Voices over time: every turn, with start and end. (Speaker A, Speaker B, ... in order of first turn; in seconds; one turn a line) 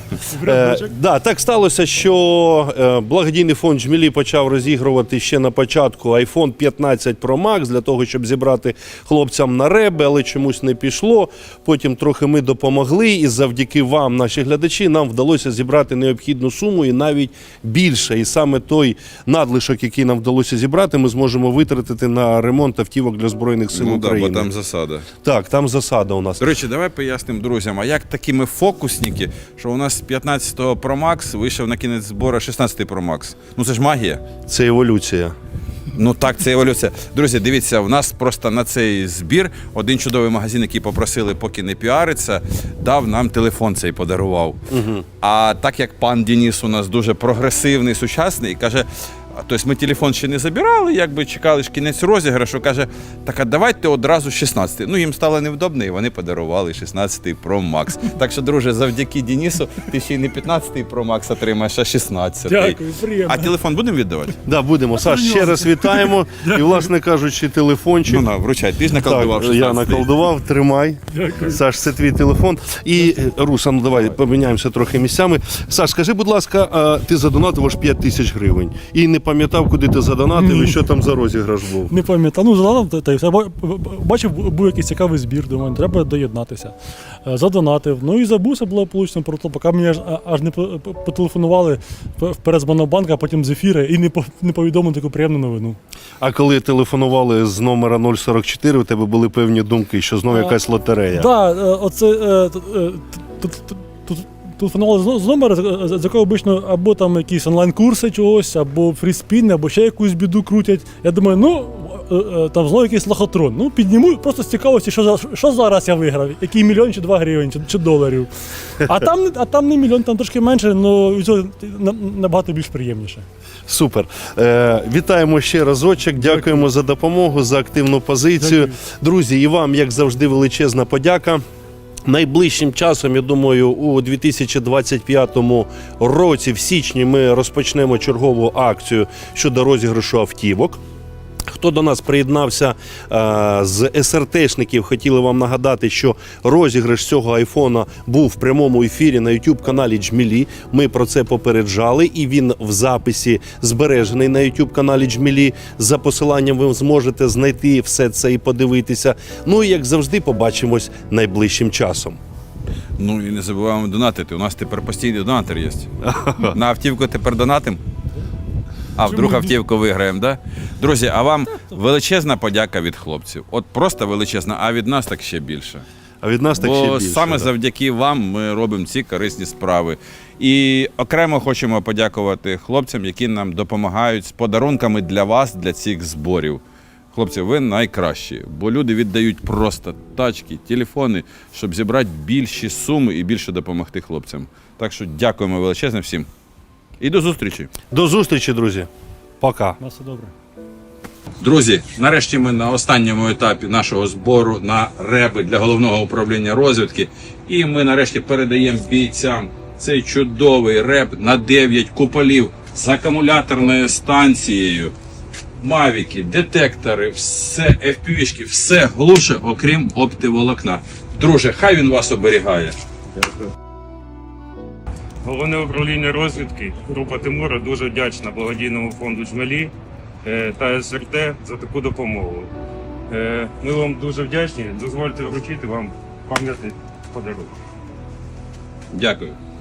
Speaker A: 0.3-24.5
Speaker B: 0.3-0.9
Speaker C: 23.7-25.1
Speaker A: 25.2-26.5
Speaker C: 26.4-34.2
Speaker A: 34.5-35.3
Speaker C: 35.9-44.6
Speaker A: 44.7-45.0
Speaker C: 45.2-64.4
Speaker B: 62.5-63.5
Speaker A: 64.5-68.2
Speaker B: 65.1-66.6
Speaker C: 68.0-70.1
Speaker A: 69.0-81.9
Speaker B: 71.1-71.5
Speaker B: 80.4-80.7
Speaker B: 81.9-95.8
Speaker A: 96.2-101.3
Speaker B: 101.2-123.2
Speaker A: 123.7-131.4
Speaker B: 128.4-128.7
Speaker A: 132.1-140.8
Speaker A: 141.5-162.2
Speaker C: 163.0-165.9
Speaker A: 166.0-166.6
Speaker C: 166.5-167.8
Speaker C: 169.0-175.8
Speaker A: 176.2-177.5
Speaker C: 176.6-186.6
Speaker C: 187.1-196.3
Speaker C: 197.0-197.7
Speaker A: 197.9-198.9
Speaker A: 199.4-199.8
Speaker B: 199.8-200.3
Speaker C: 201.4-214.9
Speaker C: 215.6-222.7
Speaker D: 225.2-229.7
Speaker D: 230.2-232.5
Speaker D: 233.1-237.5
Speaker C: 238.9-239.3